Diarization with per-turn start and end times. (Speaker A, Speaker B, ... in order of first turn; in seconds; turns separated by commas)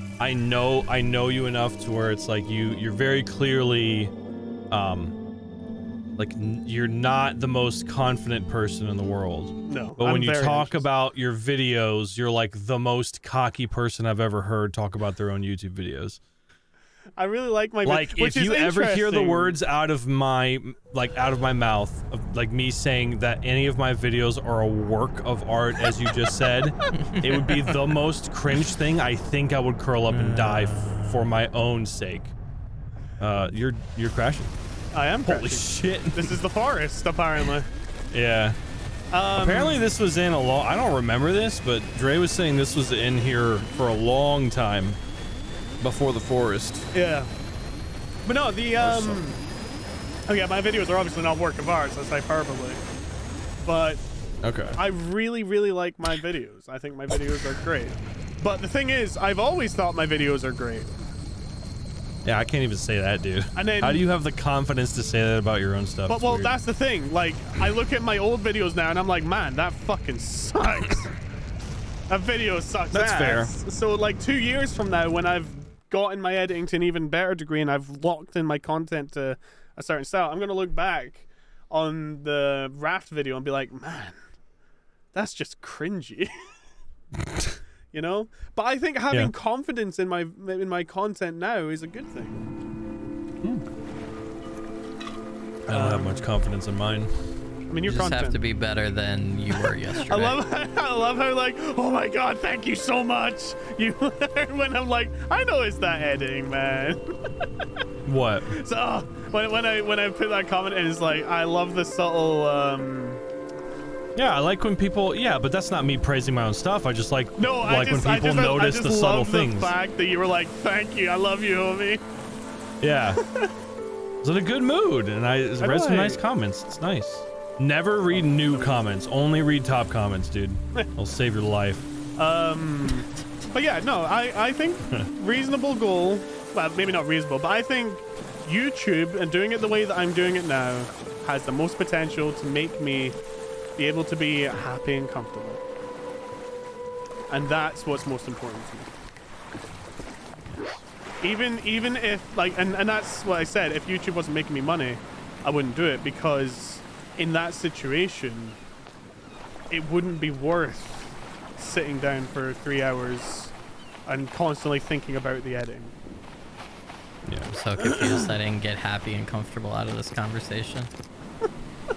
Speaker A: 0.2-4.1, Speaker A: 4.7-5.2, Speaker A: 6.2-16.2, Speaker B: 9.7-10.8, Speaker B: 17.2-19.6, Speaker A: 17.8-32.3, Speaker C: 27.1-27.7, Speaker C: 30.1-30.8, Speaker A: 33.2-34.5, Speaker B: 34.9-37.7, Speaker A: 35.2-36.4, Speaker A: 38.1-38.6, Speaker B: 39.1-39.9, Speaker A: 39.3-45.0, Speaker A: 45.8-46.9, Speaker B: 46.9-47.3, Speaker B: 48.2-49.4, Speaker A: 48.8-49.2, Speaker B: 50.3-52.8, Speaker B: 53.6-54.0, Speaker A: 54.4-54.8, Speaker B: 54.7-61.0, Speaker A: 62.2-66.5, Speaker B: 63.5-64.0, Speaker B: 66.1-71.1, Speaker B: 72.1-84.2, Speaker A: 72.9-73.5, Speaker B: 85.1-86.5, Speaker B: 87.9-92.5, Speaker A: 95.7-97.1, Speaker B: 95.7-96.3, Speaker B: 97.7-98.4, Speaker C: 97.8-100.4, Speaker B: 99.6-107.1, Speaker A: 108.0-108.6, Speaker B: 108.5-113.2, Speaker A: 114.1-119.7, Speaker B: 117.4-122.0, Speaker A: 122.8-123.2, Speaker B: 123.1-123.5, Speaker A: 124.2-131.9, Speaker B: 125.6-126.2, Speaker B: 128.1-128.8, Speaker B: 132.2-143.2, Speaker B: 143.8-145.6, Speaker B: 147.3-148.9, Speaker A: 150.4-150.8, Speaker B: 151.2-158.6, Speaker B: 159.7-163.5, Speaker B: 164.1-165.9, Speaker A: 167.3-168.3, Speaker C: 167.5-170.9